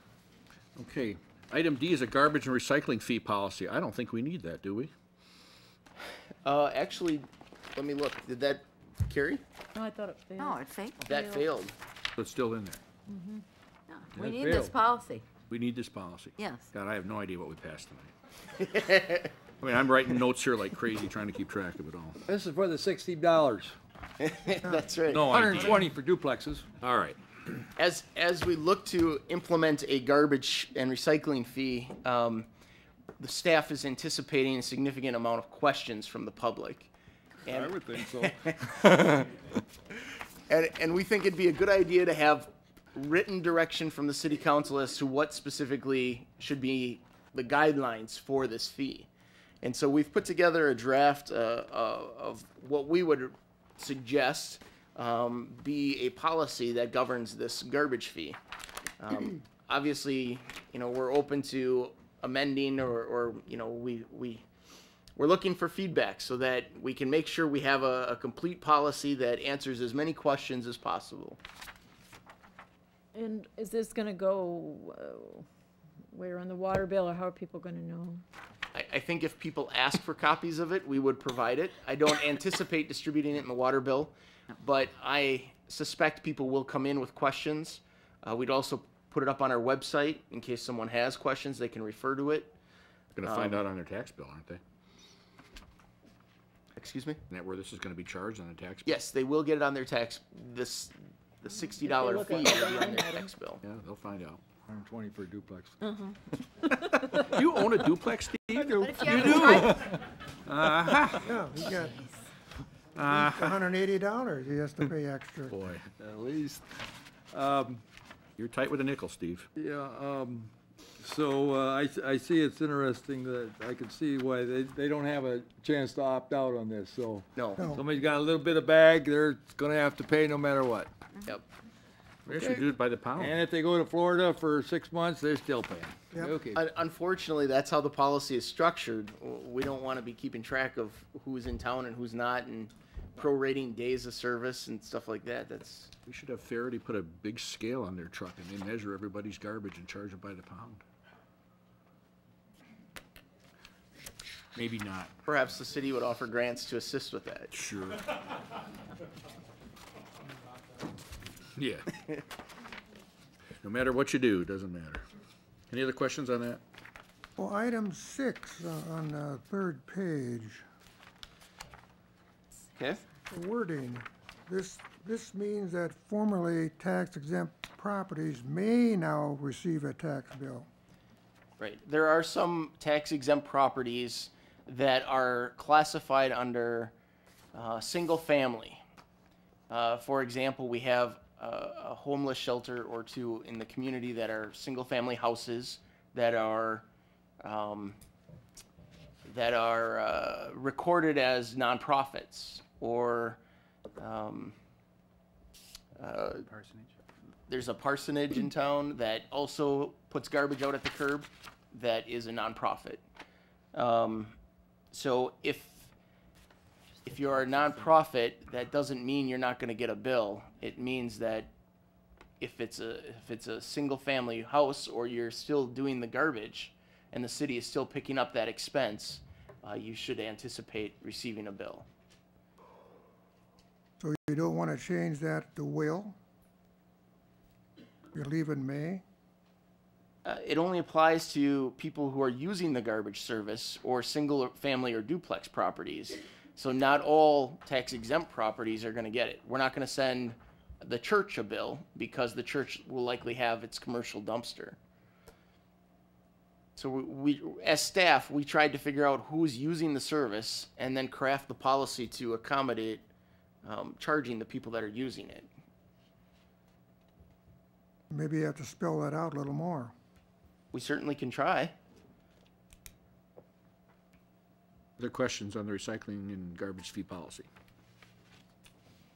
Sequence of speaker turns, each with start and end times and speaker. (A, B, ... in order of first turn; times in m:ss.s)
0:00.8-0:04.9 A
0:06.4-0:09.4 B
0:09.7-0:11.5 C
0:10.4-0:11.0 D
0:11.0-0:11.7 B
0:12.2-0:12.8 A
0:13.1-0:13.4 C
0:13.9-0:15.2 D
0:14.1-0:14.8 E
0:15.5-0:18.1 A
0:16.4-0:16.7 D
0:18.6-0:19.3 B
0:19.6-0:22.2 A
0:22.3-0:23.7 E
0:24.2-0:25.6 B
0:25.1-0:25.8 A
0:25.1-0:26.6 E
0:26.8-0:27.2 A
0:27.8-0:32.5 B
0:33.2-0:36.9 B
0:37.4-0:39.3 B
0:37.5-0:38.4 E
0:40.5-0:49.1 B
0:49.6-0:58.4 B
0:59.0-1:04.4 B
1:05.2-1:11.4 B
1:13.1-1:15.4 C
1:16.1-1:18.2 C
1:18.7-1:32.5 B
1:33.2-1:34.6 A
1:33.2-1:33.6 B
1:36.8-1:37.2 B
1:37.3-1:38.9 A
1:38.8-1:43.6 B
1:41.8-1:43.3 C
1:43.6-1:44.4 A
1:44.7-1:45.8 E
1:45.8-1:46.2 C
1:47.0-1:49.9 A
1:48.7-1:49.7 E
1:48.9-1:49.7 D
1:50.4-1:51.3 A
1:51.2-1:52.0 F
1:53.0-1:53.5 A
1:53.0-1:55.5 F
1:55.5-1:55.9 A
1:56.0-1:56.6 E
1:57.3-1:57.8 E
1:58.4-1:59.5 A
1:59.6-2:10.9 E
2:07.4-2:07.6 B
2:07.6-2:07.8 F
2:12.2-2:13.4 A
2:13.2-2:16.6 E
2:16.5-2:25.9 B
2:26.0-2:30.8 A
2:34.5-2:35.1 A
2:35.2-2:37.5 B
2:37.5-2:38.1 A
2:41.6-2:41.9 A
2:43.6-2:45.0 A
2:45.7-2:46.6 A
2:47.4-2:50.6 F
2:52.8-2:53.0 B
2:53.3-3:00.7 F
3:01.6-3:06.9 B
3:07.5-3:08.8 B
3:09.7-3:16.8 B
3:17.4-3:18.0 B
3:19.2-3:23.4 B
3:24.0-3:24.5 B
3:26.0-3:26.5 B
3:27.5-3:33.0 B
3:33.7-3:34.3 B
3:34.9-3:35.9 B
3:37.0-3:41.5 B
3:42.4-3:51.8 B
3:54.0-3:56.1 F
3:58.1-3:59.0 F
4:00.2-4:14.8 B
4:16.8-4:23.0 B
4:23.6-4:25.5 B
4:28.1-4:29.9 F
4:30.7-4:31.7 B
4:35.0-4:37.5 A